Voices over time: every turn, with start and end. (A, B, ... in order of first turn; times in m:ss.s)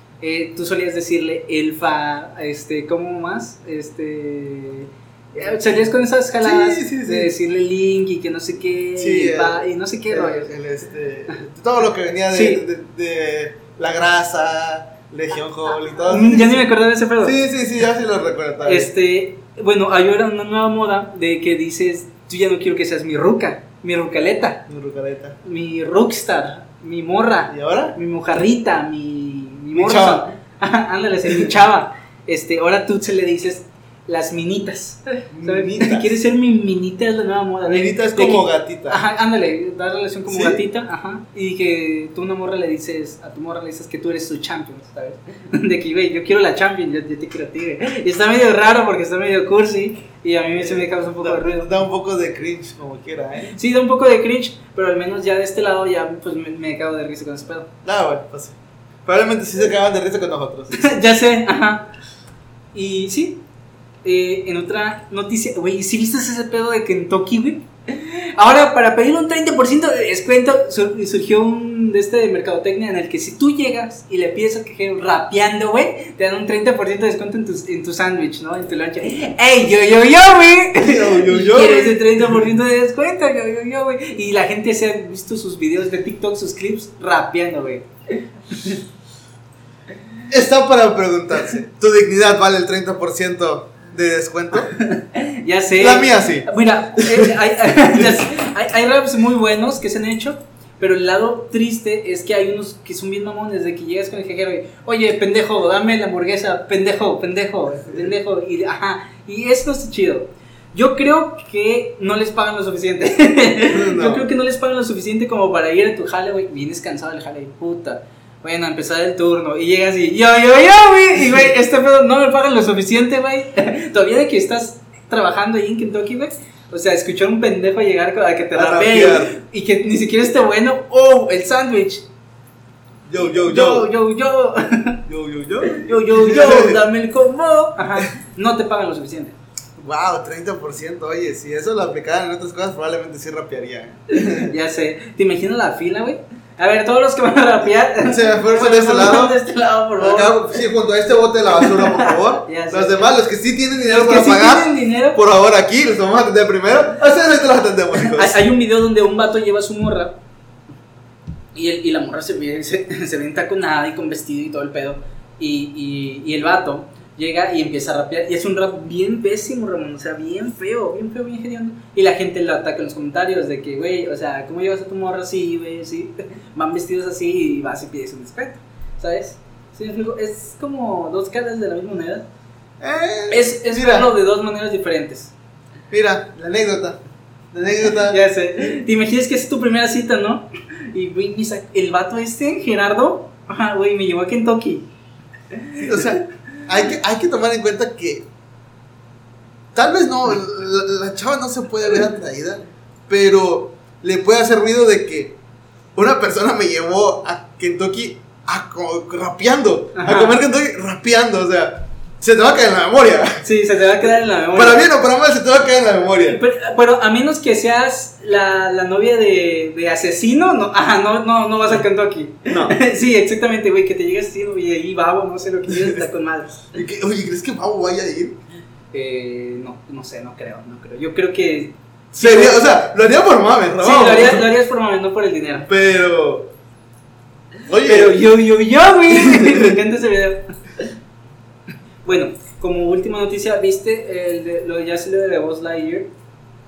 0:00.2-0:10.5 A
0:05.4-0:05.9 B
0:06.4-0:07.3 B
0:09.0-0:16.7 B
0:12.3-0:12.6 A
0:16.1-0:17.4 A
0:17.2-0:18.9 B
0:18.6-0:24.6 A
0:24.7-0:25.4 B
0:25.4-0:51.8 A
0:27.5-0:28.0 B
0:29.7-0:30.3 B
0:35.3-0:36.2 B
0:37.7-0:39.0 B
0:40.3-0:40.6 B
0:50.6-0:53.6 B
0:53.5-0:57.7 A
0:57.8-1:00.9 B
1:00.7-1:01.9 A
1:02.7-1:03.4 A
1:04.0-1:28.8 A
1:20.8-1:22.4 B
1:30.3-1:34.7 B
1:34.6-2:12.0 A
1:35.8-1:37.4 B
1:53.7-1:54.3 B
2:08.6-2:09.4 B
2:13.1-2:13.9 B
2:13.2-2:15.0 A
2:15.1-2:16.8 B
2:15.6-2:19.4 A
2:19.8-2:24.5 B
2:24.2-2:30.6 A
2:28.0-2:29.4 B
2:30.0-2:38.4 B
2:31.6-2:33.2 A
2:33.8-2:35.2 A
2:37.9-2:40.2 A
2:41.6-3:02.2 A
3:02.8-3:04.1 B
3:03.3-3:05.3 A
3:05.9-3:07.0 B
3:07.5-3:08.2 B
3:07.9-3:14.9 A
3:15.5-3:16.1 A
3:15.8-3:18.2 B
3:19.7-3:25.4 B
3:26.0-3:33.4 B
3:30.0-3:30.4 A
3:33.4-3:34.8 A
3:34.0-3:36.4 B
3:36.3-3:46.7 A
3:42.5-3:42.8 B
3:45.7-3:46.0 B
3:46.7-3:48.4 B
3:48.9-3:52.7 A
3:52.1-3:54.5 B
3:53.8-3:55.7 A
3:55.7-3:56.5 B
3:57.7-3:58.3 B
3:57.8-4:00.8 A
3:59.1-3:59.8 B
4:02.0-4:06.1 A